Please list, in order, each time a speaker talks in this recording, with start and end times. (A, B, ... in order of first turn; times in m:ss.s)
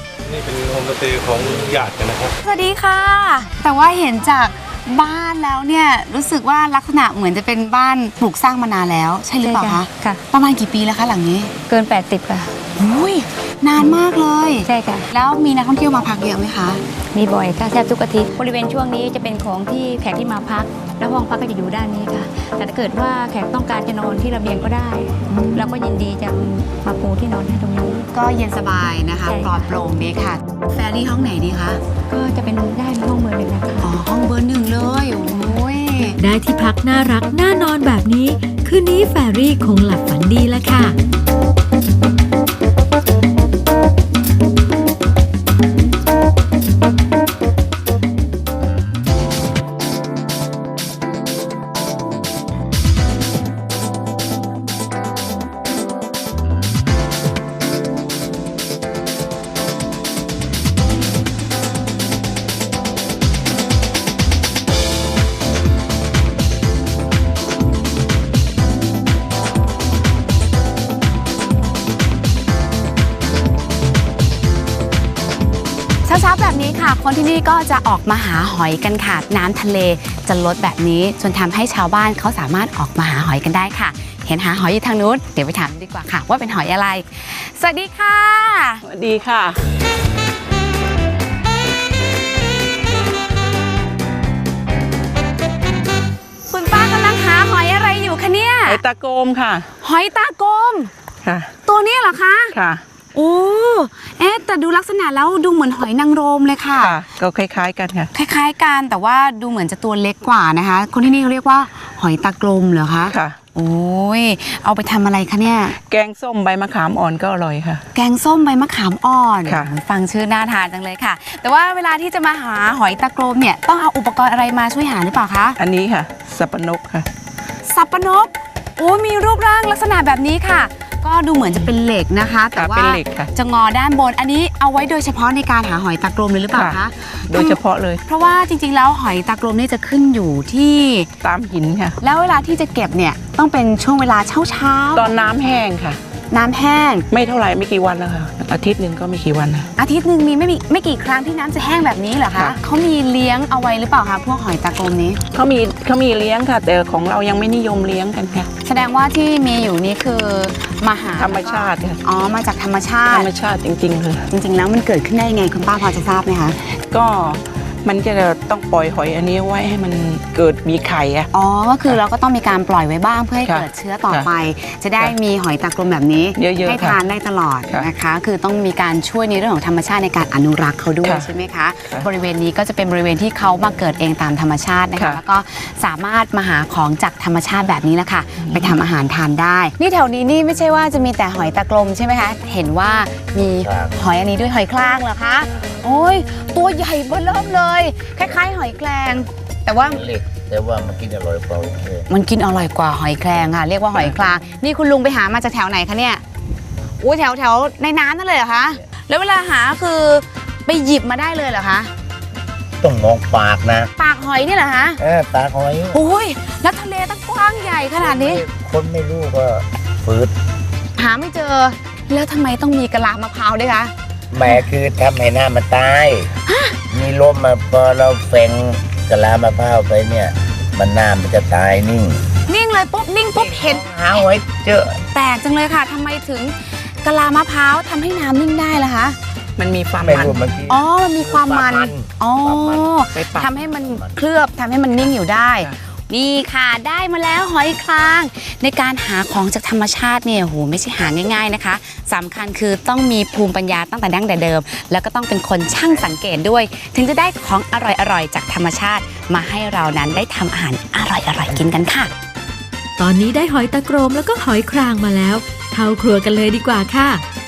0:00.2-0:02.3 A
0:02.4-0:11.5 B
0:09.4-0:10.2 C
0:11.7-0:12.6 C
0:12.8-0:16.8 B
0:14.7-0:15.0 C
0:17.1-0:28.0 C
0:25.3-0:25.7 B
0:28.0-0:31.8 B
0:32.1-0:33.8 C
0:33.8-0:36.2 B
0:36.2-0:41.0 D
1:16.0-1:28.8 B
1:28.8-1:29.6 E
1:36.5-1:38.8 B
1:38.6-1:39.7 E
1:39.8-1:40.9 B
1:41.2-1:41.5 E
1:41.6-1:42.6 B
1:42.5-1:42.8 E
1:43.1-1:47.0 B
1:46.8-1:48.1 E
1:48.1-1:55.8 B
1:53.1-1:53.4 E
1:55.8-1:57.8 E
1:57.9-2:05.6 B
1:59.4-1:59.7 E
2:05.6-2:07.1 E
2:07.6-2:21.1 B
2:12.5-2:13.3 E
2:16.5-2:18.0 E
2:21.2-2:22.0 E
2:22.0-2:25.2 B
2:24.9-2:26.0 E
2:26.3-2:27.1 B
2:27.1-2:29.7 E
2:29.8-2:35.2 B
2:35.3-2:38.5 E
2:38.6-2:43.3 B
2:41.2-2:42.0 E
2:43.1-2:44.2 E
2:44.3-2:46.6 B
2:46.9-2:51.3 E
2:51.3-3:20.0 B
2:53.4-2:54.3 E
2:56.4-2:57.0 E
3:08.4-3:08.7 E
3:13.6-3:13.9 F
3:19.8-3:22.1 F
3:22.1-3:26.2 B
3:27.0-3:31.9 B
3:32.8-3:33.9 F
3:34.0-3:35.0 B
3:35.0-3:36.0 F
3:35.9-3:38.4 B
3:38.0-3:40.3 F
3:41.0-3:43.9 B
3:44.3-3:46.3 F
3:46.4-3:46.8 B
3:46.9-3:52.3 F
3:52.4-3:54.2 B
3:53.3-3:55.0 F
3:55.1-3:59.2 B
3:59.6-4:00.4 E
4:00.0-4:03.0 F
4:00.7-4:22.1 B
4:03.1-4:03.5 E
4:03.7-4:04.1 F
4:23.0-4:27.2 D